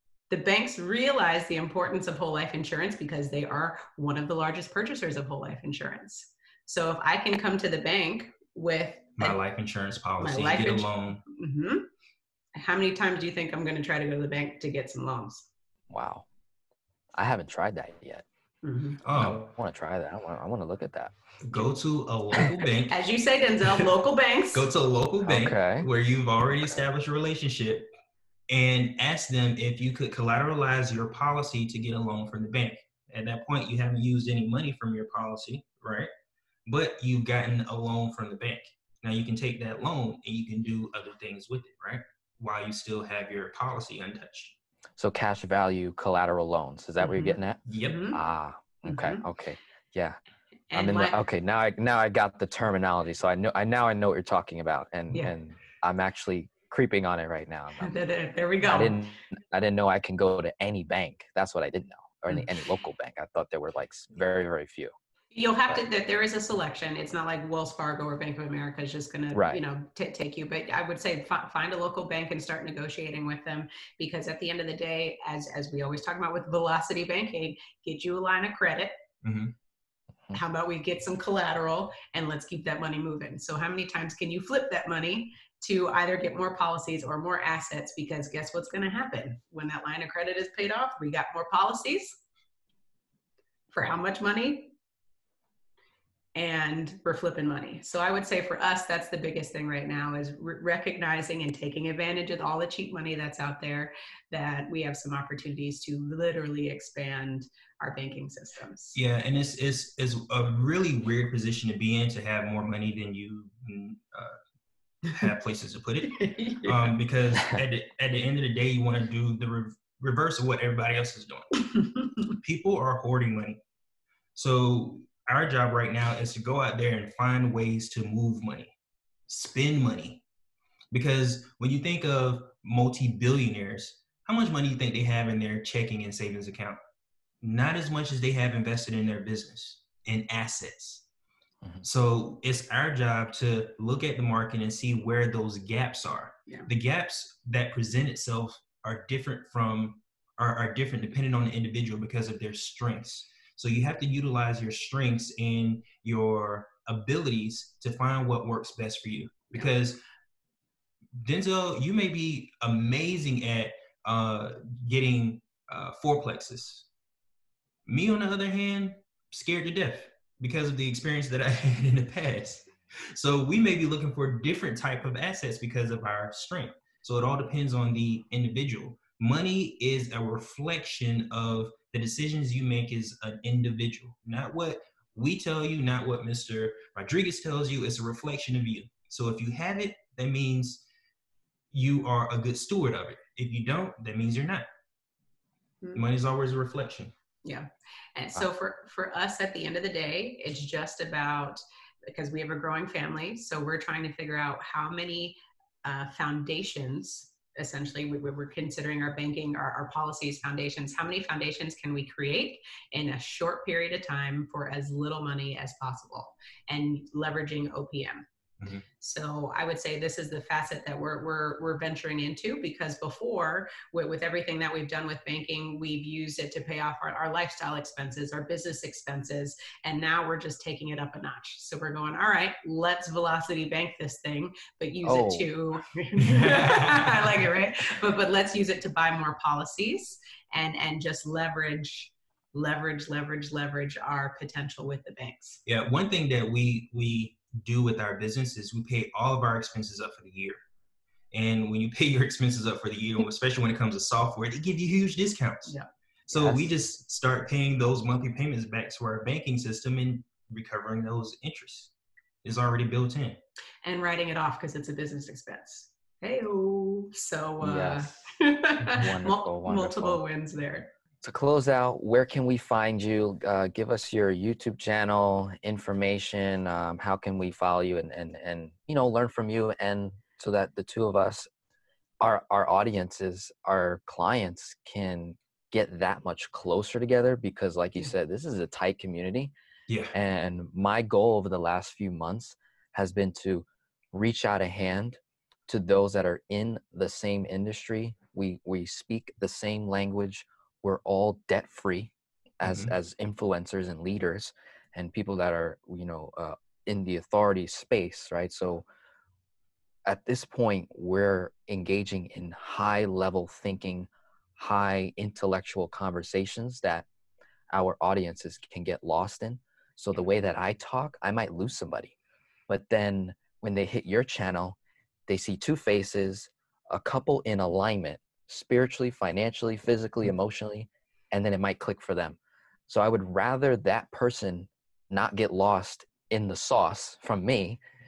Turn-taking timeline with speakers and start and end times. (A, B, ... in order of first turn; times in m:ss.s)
0:00.3-0:09.4 A
0:09.2-0:11.2 B
0:10.2-0:11.8 A
0:12.6-0:15.5 A
0:15.9-0:16.3 C
0:17.1-0:18.2 C
0:18.6-0:19.0 A
0:19.0-0:19.5 B
0:19.1-0:21.1 C
0:21.5-0:23.1 B
0:22.9-0:24.7 A
0:24.5-0:27.9 B
0:25.2-0:25.9 C
0:28.5-0:36.1 B
0:36.7-0:44.5 B
0:45.0-0:50.2 C
0:47.0-0:48.2 A
0:47.7-0:48.0 B
0:48.8-0:49.2 A
0:50.7-0:51.2 A
0:50.7-0:57.9 C
0:57.8-0:59.0 A
0:58.6-1:04.9 C
1:05.3-1:19.0 A
1:09.3-1:09.6 C
1:19.2-1:19.5 B
1:20.3-1:32.2 A
1:33.7-1:34.7 A
1:36.3-1:49.0 A
1:48.9-1:54.4 B
1:55.0-2:01.6 B
1:56.1-1:56.9 A
2:01.7-2:02.3 A
2:02.3-2:03.6 B
2:04.4-2:08.7 B
2:09.3-2:10.2 B
2:10.9-2:16.8 B
2:17.4-2:21.0 B
2:21.8-2:40.0 B
2:41.1-2:46.8 B
2:47.8-3:10.8 B
3:11.7-3:14.6 B
3:15.9-3:17.1 B
3:17.4-3:38.2 A
3:39.0-4:05.6 A
3:55.0-3:55.5 C
3:56.2-3:57.4 B
4:05.6-4:10.6 B
4:11.3-4:15.7 B
4:16.3-4:21.9 B
4:16.3-4:16.7 C
4:22.4-4:23.4 B
4:23.8-4:30.9 A
4:27.6-4:28.3 C
4:28.8-4:30.2 C
4:31.2-4:41.5 C
4:42.2-4:49.5 C
4:49.9-4:50.1 B
4:50.1-5:08.8 C
5:02.6-5:02.9 B
5:10.0-5:17.1 C
5:17.7-5:22.1 C
5:22.7-5:24.8 C
5:25.3-5:37.8 C